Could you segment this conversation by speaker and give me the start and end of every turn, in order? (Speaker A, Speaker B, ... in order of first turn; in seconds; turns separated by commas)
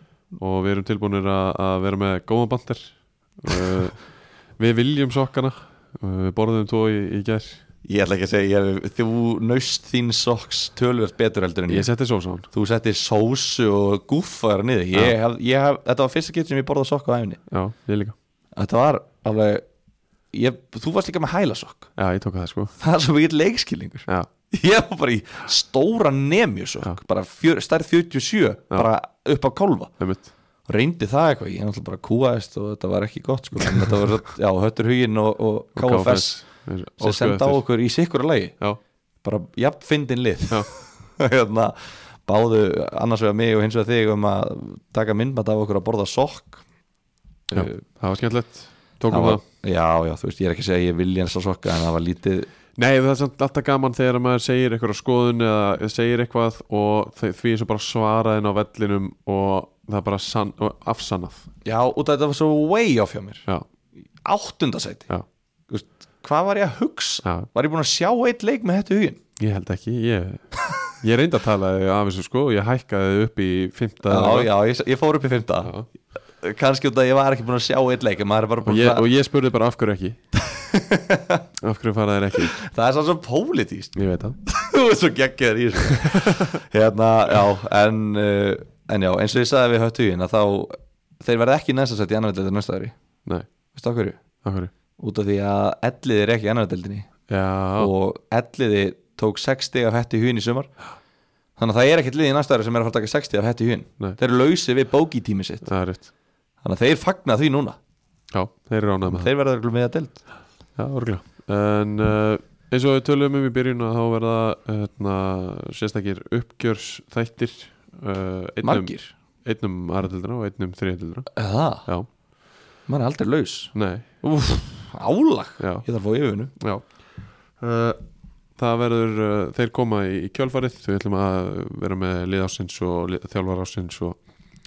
Speaker A: 0.4-7.6, Speaker B: 7.8-11.9, Speaker A: 11.7-12.5, Speaker B: 12.5-17.4, Speaker A: 17.5-18.2, Speaker B: 18.6-19.6, Speaker B: 20.3-21.9, Speaker A: 22.0-22.7, Speaker B: 22.8-29.9, Speaker A: 30.0-30.3, Speaker B: 30.7-38.6, Speaker A: 35.8-37.6, Speaker B: 39.2-46.6, Speaker B: 47.5-47.9, Speaker A: 47.5-49.4, Speaker B: 49.1-52.5, Speaker A: 52.8-61.5, Speaker B: 61.6-63.5, Speaker B: 64.2-65.1, Speaker B: 65.7-69.2, Speaker A: 67.2-67.5, Speaker A: 69.4-74.5, Speaker B: 74.1-75.7, Speaker B: 76.4-79.0, Speaker A: 78.7-80.2, Speaker B: 80.4-81.5, Speaker A: 81.6-82.5, Speaker B: 82.4-93.0, Speaker A: 84.0-84.4, Speaker A: 85.9-86.6, Speaker B: 93.7-94.2, Speaker A: 94.4-94.7, Speaker B: 95.0-97.1, Speaker A: 97.3-97.9, Speaker B: 97.8-100.7, Speaker B: 101.6-105.7, Speaker A: 105.6-106.1, Speaker B: 106.6-107.8, Speaker A: 108.3-109.3, Speaker B: 109.1-110.2, Speaker A: 110.8-122.1, Speaker B: 118.6-119.1, Speaker B: 121.3-121.9, Speaker B: 122.9-123.7, Speaker A: 123.7-124.9, Speaker B: 124.9-126.5, Speaker A: 125.6-125.8, Speaker A: 126.6-127.0, Speaker A: 127.6-128.0, Speaker A: 128.6-134.2